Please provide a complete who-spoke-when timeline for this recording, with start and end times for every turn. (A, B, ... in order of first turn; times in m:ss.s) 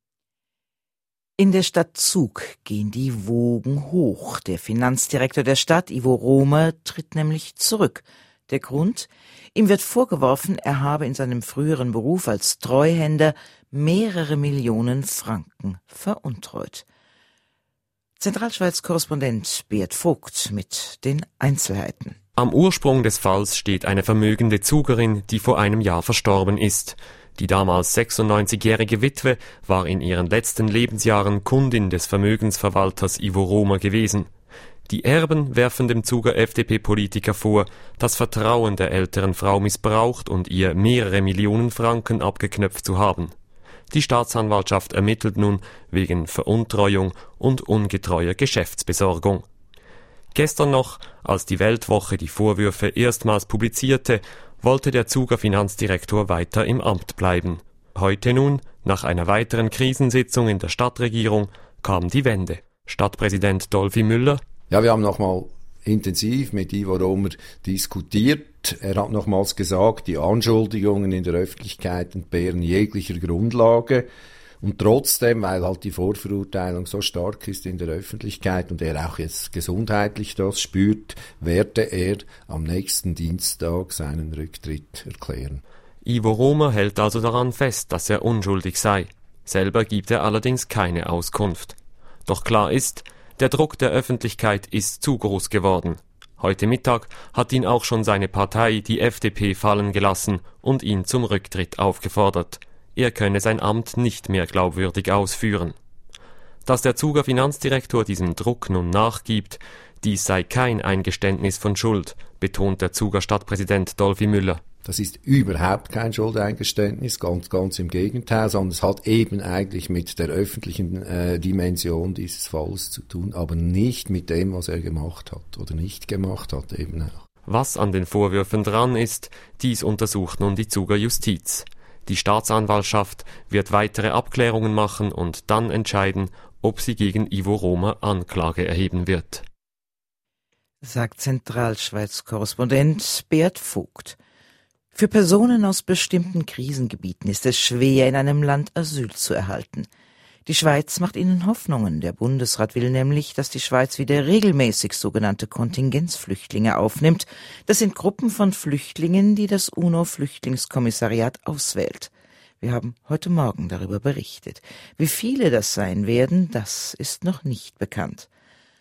0:01.4-0:16.8 A
0:18.2-0:22.2 A
0:22.4-0:34.3 B
0:34.9-0:43.3 B
0:43.9-0:49.4 B
0:50.3-1:04.4 B
1:04.7-1:14.1 C
1:14.6-1:25.6 C
1:26.0-1:45.8 B
1:46.6-1:54.6 B
1:54.8-2:07.2 C
2:07.4-2:19.4 B
2:20.8-2:24.2 A
2:24.9-2:29.9 A
2:30.5-2:42.1 A
2:42.6-2:48.3 A